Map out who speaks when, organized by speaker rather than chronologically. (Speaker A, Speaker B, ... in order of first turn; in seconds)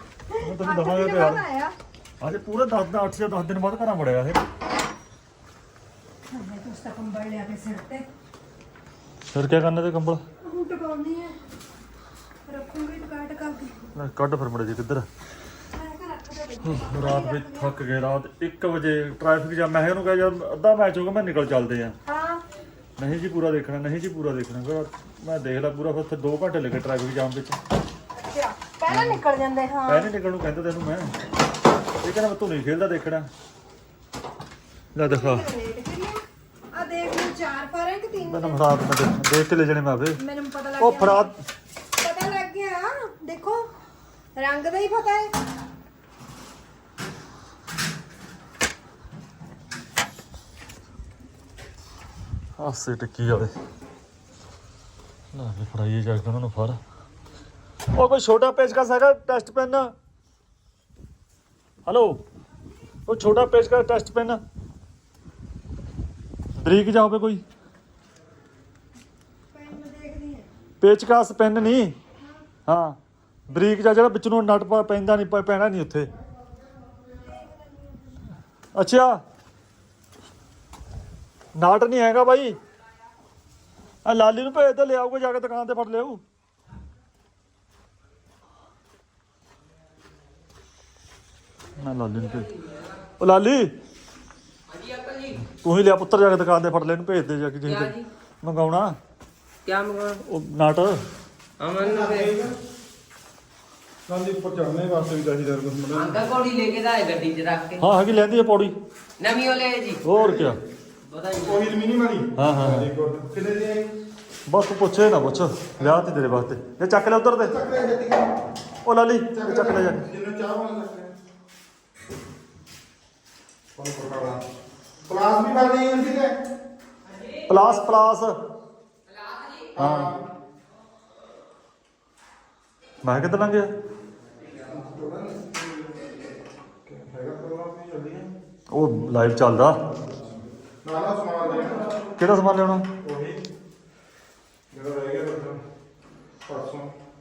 Speaker A: 0.3-1.8, 6.3-8.1, 10.4-11.4, 12.5-13.8, 15.7-17.7, 22.1-22.4, 28.1-30.1, 35.0-38.6, 40.2-41.3, 42.0-43.7, 44.4-45.4, 69.5-70.5, 77.0-78.3
Speaker B: 0.4-1.4, 2.2-4.4, 9.3-10.2, 13.9-15.1, 16.7-22.0, 23.0-27.6, 28.9-29.2, 29.9-31.1, 32.0-33.3, 34.9-35.5, 38.2-40.2, 40.8-41.4, 52.6-53.5, 55.3-56.8, 57.9-59.9, 61.9-62.2, 63.1-64.4, 66.6-67.4, 70.8-72.0, 72.7-73.0, 73.5-76.1, 78.8-79.2, 81.5-82.6, 84.0-86.2, 91.8-92.5, 93.2-93.8, 95.4-99.0, 100.2-101.0, 107.8-108.8, 110.0-110.6, 112.4-112.9, 114.5-117.6, 118.8-120.0, 127.5-128.4, 129.8-130.2, 133.0-133.7, 138.7-139.8, 142.2-142.9
Speaker C: 92.2-93.0, 94.7-95.4, 97.7-98.1, 99.7-100.2, 101.6-102.4, 105.9-107.8, 109.2-110.0, 111.0-111.7, 129.1-129.7
Speaker D: 101.8-102.5, 104.1-106.2, 110.1-110.6, 111.4-113.9, 115.8-116.1, 117.4-118.4, 119.3-121.1, 123.8-124.4, 125.1-126.4, 129.7-130.2, 134.6-136.0, 136.9-138.3, 140.0-141.9, 143.0-143.4, 144.7-145.6, 146.4-146.9